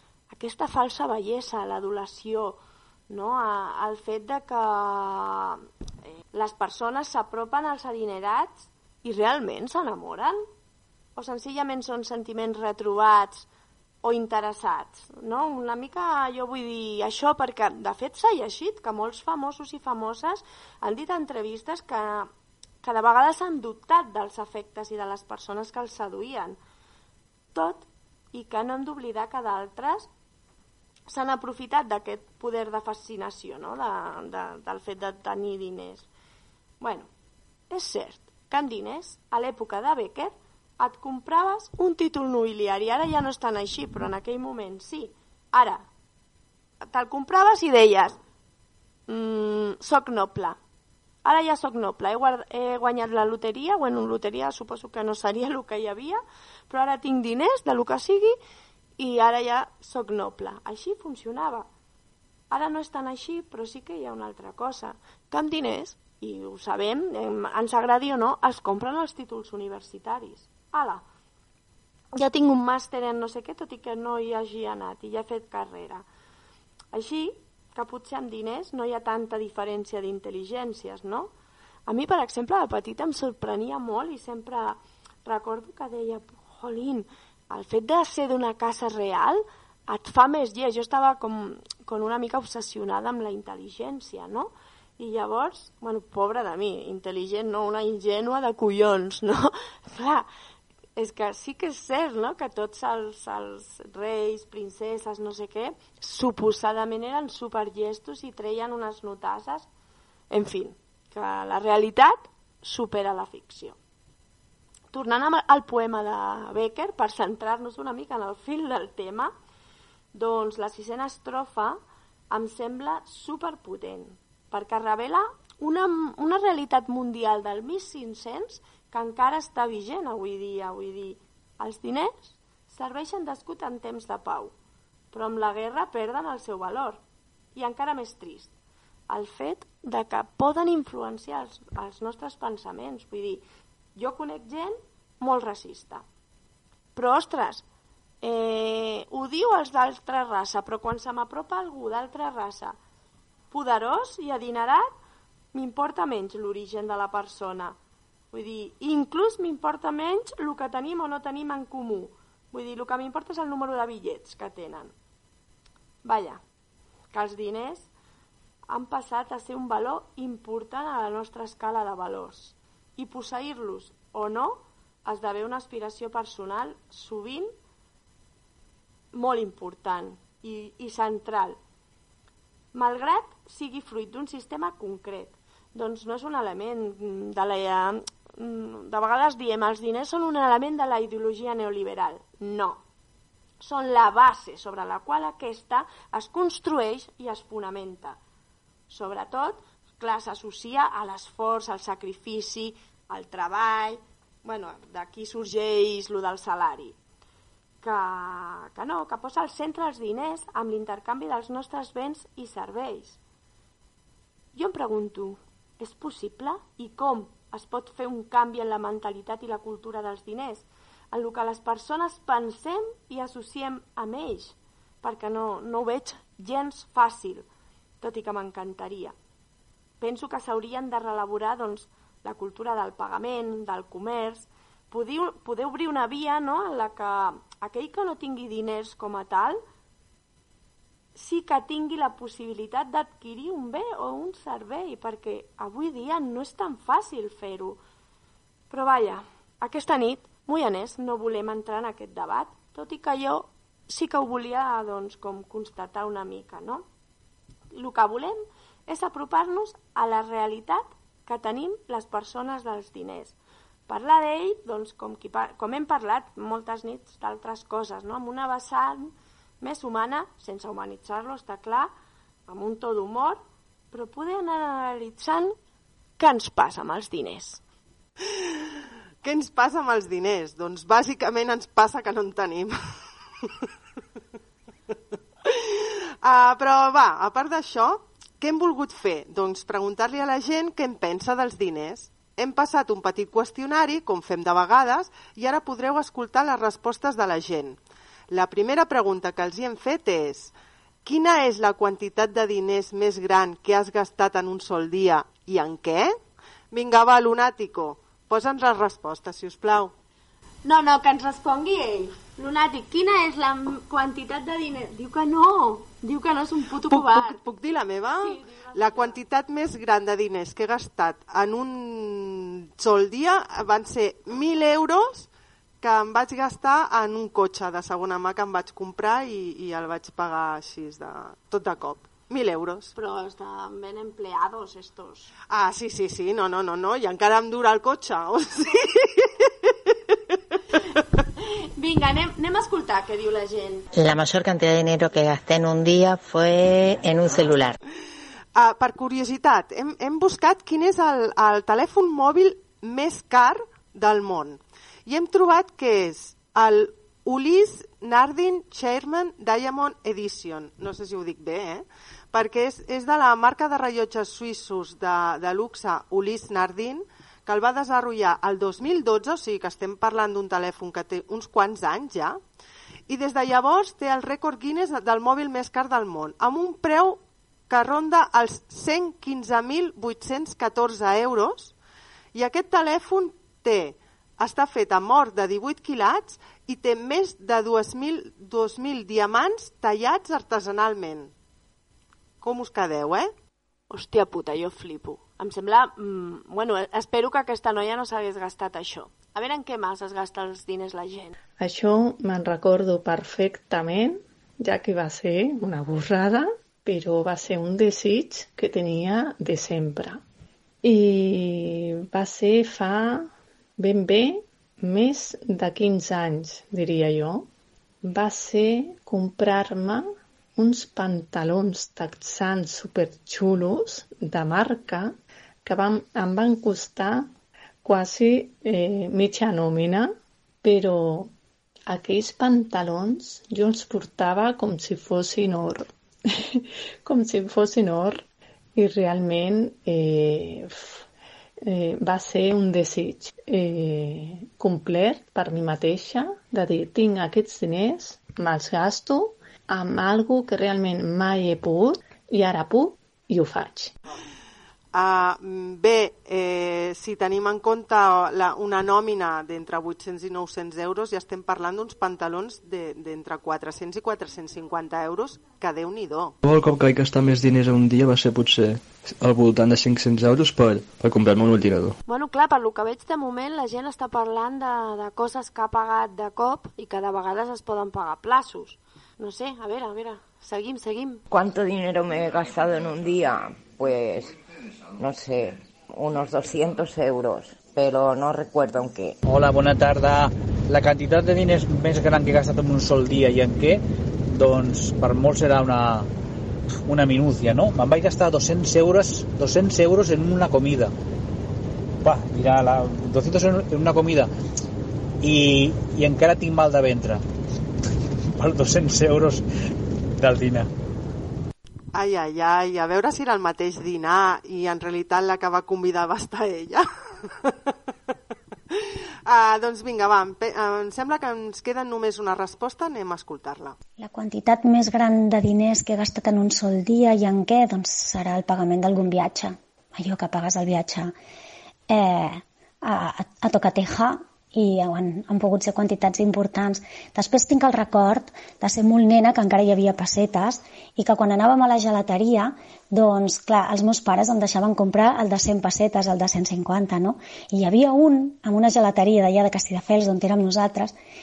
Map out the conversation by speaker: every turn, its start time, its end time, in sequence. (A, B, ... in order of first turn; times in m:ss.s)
0:00.3-0:10.4 A
0:11.1-0:13.5 A
0:14.0-0:22.3 A
0:22.8-0:26.6 A
0:27.5-0:30.1 A
0:31.1-0:36.1 A
0:36.8-0:37.1 A
0:37.7-0:45.8 A
0:46.9-0:48.2 A
0:49.1-0:50.6 A
0:51.2-0:58.4 A
0:59.0-1:01.7 A
1:02.5-1:11.0 A
1:12.1-1:16.0 A
1:16.9-1:21.3 A
1:21.9-1:40.3 A
1:41.0-1:49.7 A
1:50.3-1:53.8 A
1:54.9-1:59.3 A
2:00.1-2:01.8 A
2:02.3-2:14.5 A
2:15.1-2:17.0 A
2:17.6-2:18.5 A
2:19.1-2:23.4 A
2:24.0-2:26.0 A
2:27.0-2:27.6 A
2:28.2-2:32.8 A
2:33.5-2:34.9 A
2:35.5-2:37.8 A
2:38.3-2:44.9 A
2:46.0-2:46.4 A
2:47.1-2:47.9 A
2:48.7-2:57.5 A
2:59.1-3:01.6 A
3:02.7-3:12.8 A
3:13.6-3:18.2 A
3:18.9-3:27.0 A
3:27.8-3:33.2 A
3:34.6-3:47.5 A
3:48.0-3:49.1 A
3:50.0-3:59.6 A
4:01.1-4:07.8 A
4:08.7-4:16.8 A
4:17.7-4:23.4 A
4:23.9-4:31.9 A
4:32.5-4:33.4 A
4:33.9-4:35.6 A
4:36.2-4:37.6 A
4:38.3-4:38.7 B
4:39.2-4:42.7 B
4:45.4-4:57.8 B
4:58.3-5:00.5 B
5:01.0-5:06.1 B
5:06.7-5:09.9 B
5:10.6-5:17.4 A
5:16.9-5:25.3 B
5:18.2-5:19.2 A
5:25.8-5:32.9 B
5:33.0-5:35.3 A
5:35.5-5:40.2 B
5:41.8-5:43.9 A
5:44.0-5:47.7 C
5:48.6-6:12.4 B
6:13.1-6:21.7 B
6:22.3-6:31.3 B
6:32.4-6:33.3 B
6:33.9-6:41.4 A
6:41.6-6:50.2 D
6:50.8-6:57.5 D
6:58.0-7:07.3 D
7:07.8-7:10.1 D
7:10.6-7:11.3 D
7:11.9-7:18.2 D
7:18.8-7:21.0 D
7:21.6-7:34.0 D
7:34.9-7:46.4 B
7:46.4-7:52.0 E
7:52.0-8:01.2 A
8:01.3-8:04.4 F
8:05.0-8:09.2 F
8:09.2-8:16.1 G
8:16.9-8:20.9 G
8:22.0-8:24.3 G
8:25.2-8:27.2 G
8:28.4-8:29.4 G
8:30.2-8:30.7 G
8:31.9-8:37.5 B
8:38.7-8:43.8 B
8:44.0-8:51.1 H
8:51.9-9:11.0 H